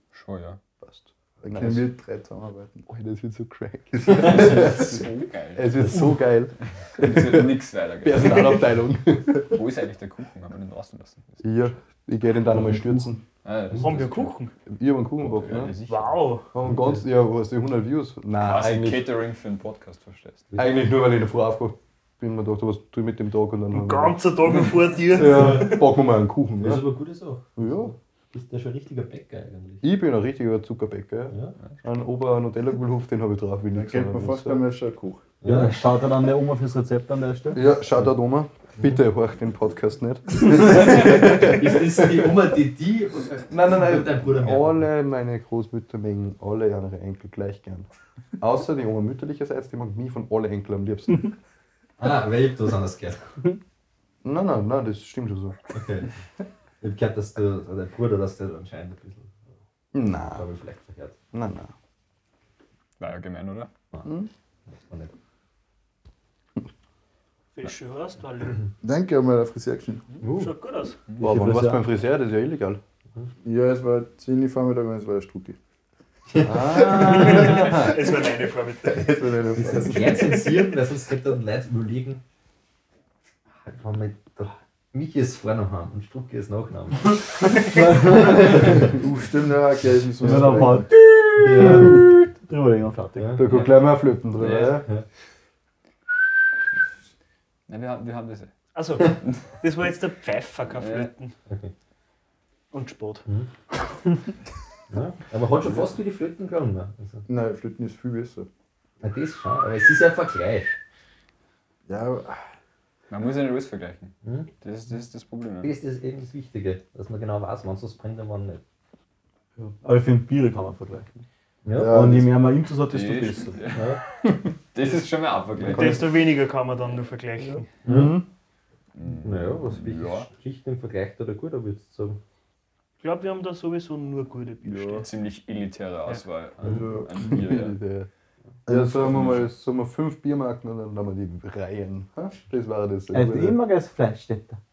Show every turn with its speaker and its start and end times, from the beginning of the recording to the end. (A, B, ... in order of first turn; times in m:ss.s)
0:00.1-0:00.6 A
0:00.8-0:01.9 B
0:01.4-0:02.8 C
0:02.8-0:09.6 B
0:04.1-0:05.8 A
0:07.0-0:08.7 A
0:09.4-0:11.7 A
0:11.4-0:13.2 B
0:13.4-0:14.3 A
0:13.8-0:14.5 D
0:14.7-0:15.7 B
0:15.2-0:16.3 A
0:15.8-0:16.5 D
0:16.5-0:19.1 B
0:18.4-0:20.4 A
0:20.6-0:24.2 B
0:23.7-0:25.8 D
0:25.1-0:26.8 B
0:25.2-0:25.6 E
0:26.6-0:29.8 E
0:27.6-0:27.9 B
0:29.8-0:34.6 B
0:33.7-0:35.3 C
0:35.4-0:35.7 E
0:35.4-0:37.7 F
0:37.5-0:42.0 B
0:40.6-0:44.8 E
0:43.5-0:47.9 B
0:48.4-0:51.3 B
0:52.0-0:53.4 E
0:54.2-0:55.6 B
0:55.7-0:56.1 E
0:56.8-0:59.4 E
0:59.9-1:00.5 B
1:00.2-1:01.2 E
1:01.3-1:01.7 B
1:03.0-1:03.7 A
1:04.0-1:04.3 B
1:04.9-1:05.1 E
1:07.5-1:08.7 D
1:08.8-1:10.0 C
1:10.2-1:10.5 E
1:10.2-1:11.0 D
1:11.2-1:11.9 F
1:11.2-1:12.8 B
1:13.4-1:15.6 C
1:16.3-1:17.5 E
1:16.4-1:18.1 B
1:17.0-1:19.2 D
1:18.9-1:20.1 C
1:19.5-1:19.9 B
1:19.5-1:22.2 E
1:23.6-1:28.9 E
1:28.6-1:30.9 C
1:30.2-1:33.4 F
1:31.4-1:32.0 E
1:33.2-1:33.6 E
1:33.4-1:34.9 B
1:34.4-1:34.8 A
1:37.7-1:38.5 A
1:38.7-1:41.3 D
1:40.8-1:41.1 A
1:42.7-1:43.2 D
1:44.9-1:47.2 E
1:47.3-1:48.5 C
1:49.0-1:50.7 E
1:51.9-1:52.4 C
1:53.1-1:55.7 A
1:54.2-1:54.5 E
1:55.6-1:58.6 E
1:59.8-2:01.1 F
2:01.6-2:02.0 E
2:01.7-2:02.5 C
2:01.8-2:03.6 F
2:02.9-2:03.8 A
2:03.7-2:04.0 E
2:04.7-2:06.2 A
2:05.6-2:07.7 D
2:07.8-2:08.2 E
2:07.8-2:08.3 B
2:08.9-2:10.3 A
2:09.2-2:12.2 E
2:13.0-2:15.1 D
2:14.8-2:17.8 A
2:16.6-2:17.3 C
2:17.2-2:18.1 B
2:18.7-2:19.1 C
2:18.7-2:23.6 B
2:19.0-2:19.4 A
2:23.1-2:24.6 F